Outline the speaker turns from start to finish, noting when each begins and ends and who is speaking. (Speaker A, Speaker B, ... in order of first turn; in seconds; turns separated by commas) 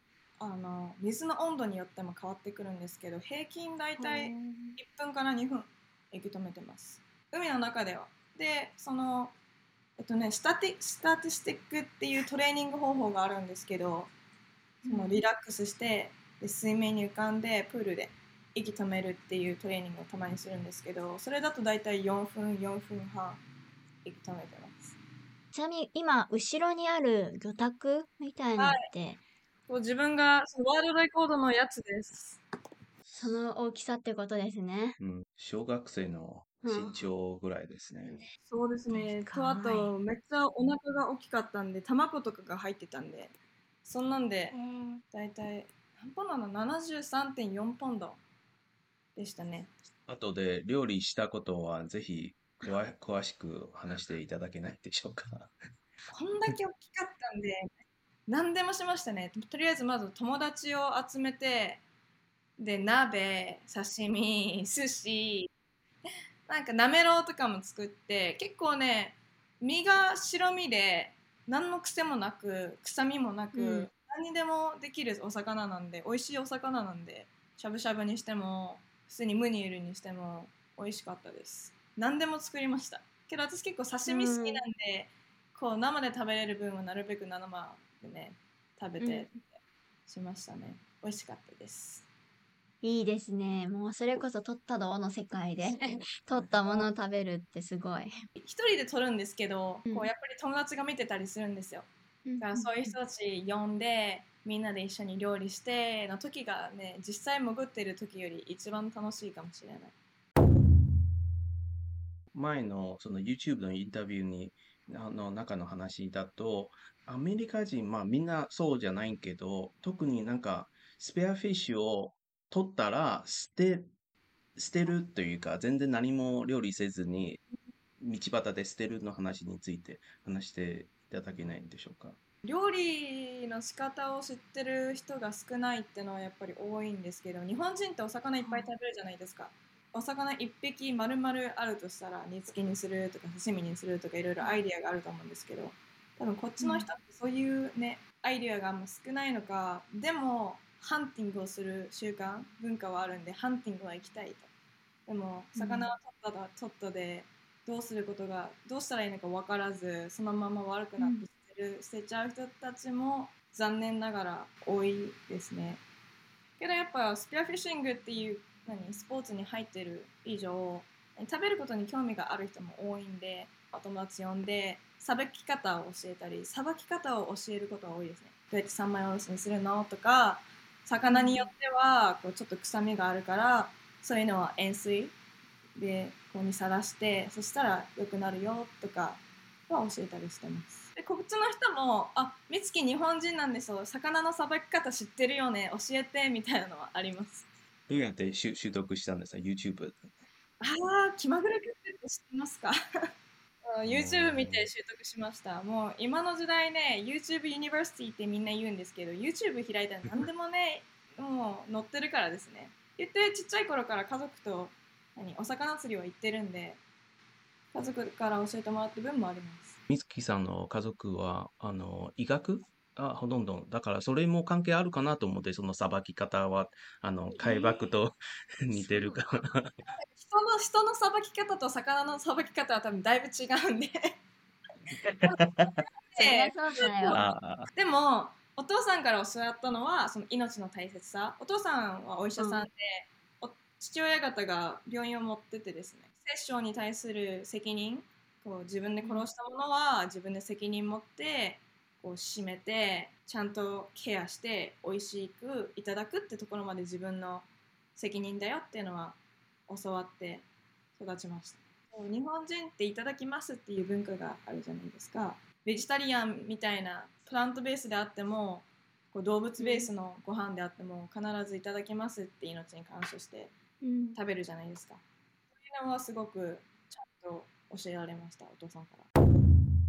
Speaker A: 0.4-9.3, Speaker B: 4.0-4.8, Speaker A: 10.0-14.1, Speaker B: 14.8-15.2, Speaker A: 14.9-23.4, Speaker A: 24.0-25.0, Speaker B: 25.5-29.2, Speaker A: 28.6-28.9, Speaker A: 29.7-32.4, Speaker B: 33.1-35.0, Speaker C: 35.0-38.2, Speaker B: 36.6-37.0, Speaker A: 38.5-43.3, Speaker B: 38.9-39.9, Speaker A: 43.9-44.6, Speaker B: 44.5-45.0, Speaker A: 45.1-48.2, Speaker A: 49.2-49.7, Speaker C: 50.1-55.5, Speaker A: 56.1-57.7, Speaker A: 58.3-61.8, Speaker A: 62.6-65.5, Speaker A: 66.5-92.1, Speaker B: 73.5-73.9, Speaker B: 84.1-84.6, Speaker B: 89.0-89.3, Speaker B: 92.8-98.2, Speaker A: 96.4-96.9, Speaker A: 98.4-101.9, Speaker B: 102.2-103.0, Speaker A: 102.4-109.9, Speaker C: 112.3-123.9, Speaker C: 124.6-127.4, Speaker C: 128.0-132.2, Speaker A: 132.4-154.5, Speaker B: 138.4-138.7, Speaker B: 146.6-146.9, Speaker A: 155.1-165.8, Speaker B: 155.6-155.9, Speaker B: 161.0-161.3, Speaker A: 166.6-185.2, Speaker B: 181.1-181.5, Speaker A: 185.8-197.5, Speaker C: 197.9-200.0, Speaker A: 200.6-203.1, Speaker A: 203.7-216.8, Speaker C: 203.9-204.7, Speaker A: 217.7-219.8, Speaker C: 219.9-229.8, Speaker B: 227.3-227.8, Speaker B: 228.8-229.2, Speaker A: 229.9-234.2, Speaker C: 235.0-235.8, Speaker A: 236.1-260.4, Speaker B: 236.2-237.2, Speaker C: 237.1-237.7, Speaker B: 242.4-242.7, Speaker B: 249.0-249.3, Speaker A: 261.0-273.5, Speaker B: 269.6-269.9, Speaker B: 273.8-274.2, Speaker A: 274.1-275.0, Speaker A: 275.6-279.1